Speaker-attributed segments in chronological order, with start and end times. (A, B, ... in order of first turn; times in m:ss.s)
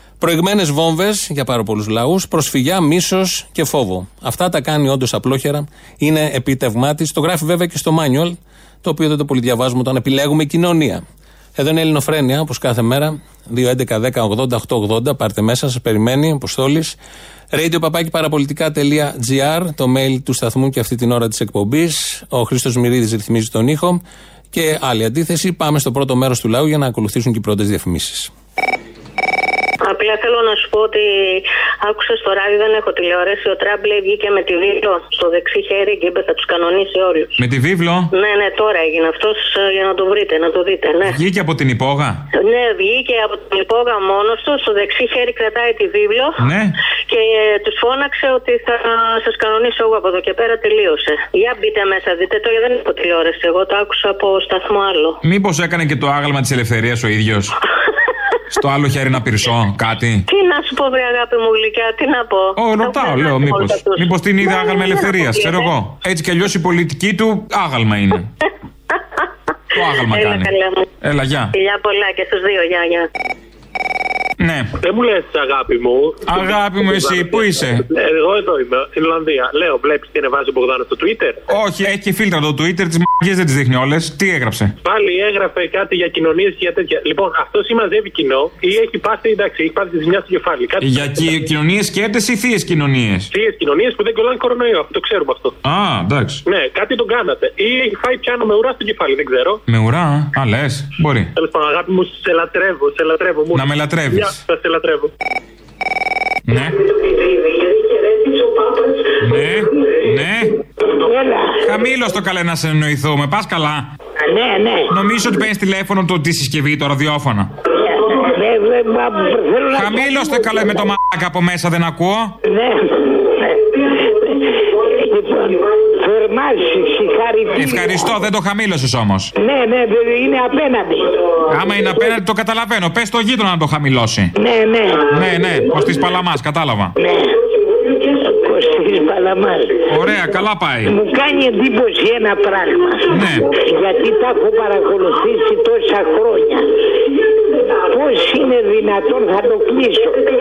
0:00.2-0:11.0 A
0:11.6-0:17.0 A
0:17.5-0:24.0 A
0:24.5-0:28.3 A
0:29.8-0:37.3 B
0:37.4-0:38.1 C
0:38.1-0:41.1 B
0:41.0-0:42.2 C
0:42.4-0:46.4 B
0:46.4-0:46.7 C
0:47.1-0:55.2 B
0:55.2-0:57.5 C
0:58.5-1:00.2 C
1:00.3-1:05.7 B
1:02.6-1:08.3 C
1:09.8-1:10.5 C
1:09.8-1:10.8 B
1:11.0-1:11.5 C
1:11.5-1:13.1 B
1:14.4-1:14.7 C
1:14.8-1:21.4 D
1:16.3-1:17.8 C
1:21.5-1:24.7 C
1:24.8-1:31.5 D
1:30.8-1:33.3 C
1:33.3-1:35.5 D
1:35.6-1:36.4 C
1:36.4-1:39.6 D
1:39.7-1:41.3 C
1:41.4-1:45.1 D
1:43.5-1:44.3 C
1:46.5-1:46.8 C
1:47.1-1:48.7 B
1:49.2-1:50.5 C
1:50.9-1:51.6 E
1:51.6-1:53.9 C
1:54.2-1:54.9 E
1:54.9-1:57.5 C
1:57.7-2:00.9 E
1:59.7-2:02.3 C
2:02.4-2:08.2 E
2:07.5-2:09.3 C
2:09.4-2:11.1 E
2:11.5-2:14.3 C
2:14.3-2:15.1 E
2:15.1-2:16.9 C
2:17.0-2:17.4 E
2:18.0-2:20.2 E
2:19.9-2:20.9 C
2:20.8-2:26.7 E
2:23.1-2:23.5 C
2:27.9-2:30.2 E